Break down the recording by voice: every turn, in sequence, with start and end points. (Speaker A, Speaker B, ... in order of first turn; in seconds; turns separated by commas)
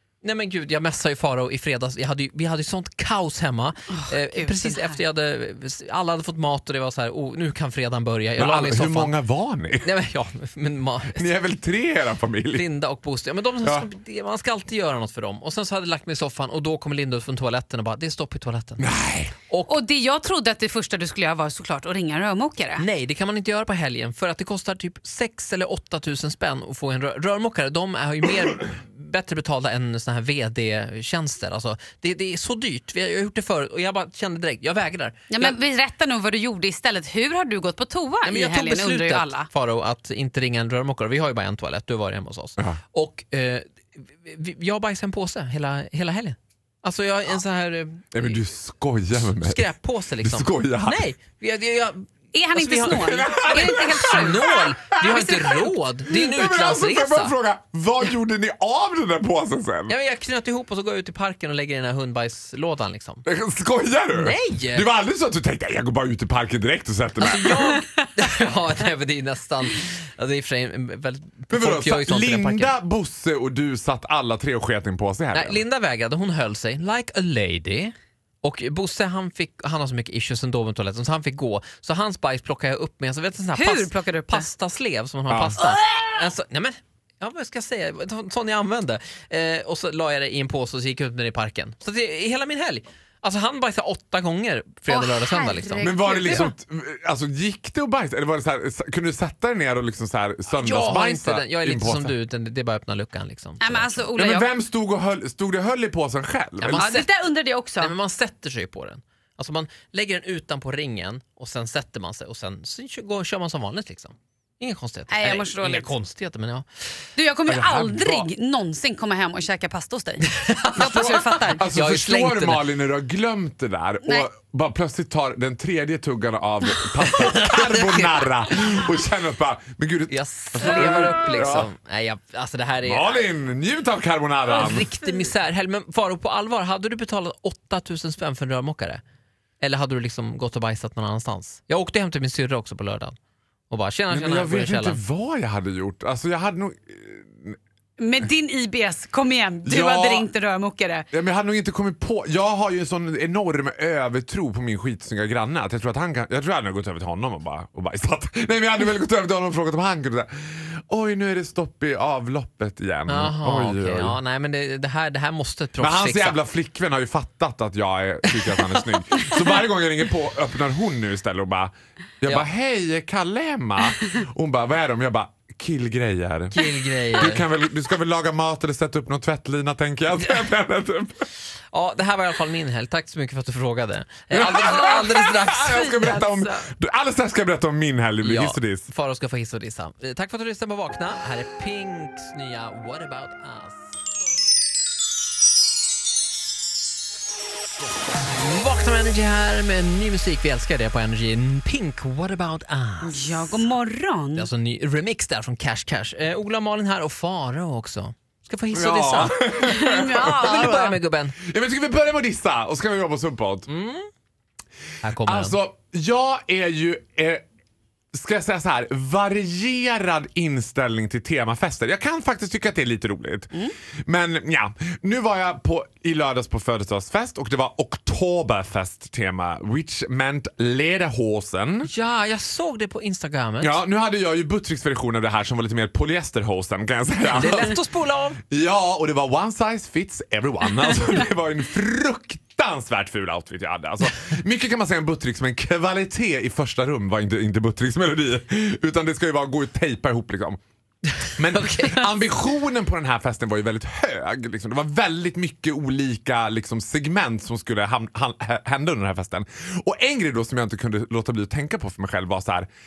Speaker A: 0.2-9.1, Speaker B: 4.0-4.9, Speaker C: 8.4-9.9, Speaker A: 9.8-11.3, Speaker C: 11.1-12.7, Speaker A: 12.5-18.9, Speaker C: 13.6-13.9, Speaker C: 18.8-19.3, Speaker A: 19.5-19.8, Speaker B: 19.7-22.8, Speaker A: 22.8-35.5, Speaker B: 35.3-39.5, Speaker A: 38.2-48.4, Speaker C: 48.1-49.6, Speaker A: 49.1-57.3, Speaker C: 50.2-51.1, Speaker B: 52.3-55.6, Speaker C: 52.9-59.9, Speaker A: 59.9-63.2, Speaker C: 63.2-67.7, Speaker A: 64.1-64.9, Speaker A: 67.2-72.7, Speaker C: 71.5-75.6, Speaker A: 75.3-96.3, Speaker B: 83.5-84.5, Speaker C: 85.3-85.7, Speaker B: 85.6-86.1, Speaker B: 94.9-96.5, Speaker C: 95.8-102.1, Speaker A: 100.5-104.0, Speaker B: 103.6-104.5, Speaker C: 104.1-106.9, Speaker A: 106.6-107.1, Speaker B: 106.7-107.9, Speaker A: 107.8-116.7, Speaker B: 115.1-115.9, Speaker B: 117.2-121.6, Speaker C: 117.5-118.3, Speaker A: 120.3-122.7, Speaker C: 120.8-131.7, Speaker A: 127.1-128.4, Speaker A: 130.1-133.2, Speaker C: 132.8-134.9, Speaker A: 134.4-139.0, Speaker A: 139.6-143.1, Speaker A: 143.7-145.0, Speaker C: 144.1-147.6, Speaker B: 148.0-151.1, Speaker C: 149.6-150.3, Speaker C: 151.1-164.2, Speaker A: 163.1-166.4, Speaker C: 165.8-181.3, Speaker A: 176.5-177.4, Speaker A: 181.7-185.9, Speaker C: 184.3-188.9, Speaker B: 184.4-186.7, Speaker A: 188.2-194.0, Speaker A: 198.3-203.7, Speaker B: 203.0-204.5, Speaker A: 204.3-209.4, Speaker C: 208.7-210.7, Speaker B: 209.6-211.0, Speaker A: 210.4-211.3, Speaker C: 211.4-213.7, Speaker A: 213.7-214.1, Speaker A: 215.0-215.6, Speaker C: 215.2-217.4, Speaker C: 218.1-231.9, Speaker A: 231.8-233.8, Speaker C: 233.6-237.8, Speaker A: 237.3-238.4, Speaker C: 238.5-250.6, Speaker C: 251.3-262.7, Speaker A: 251.6-252.1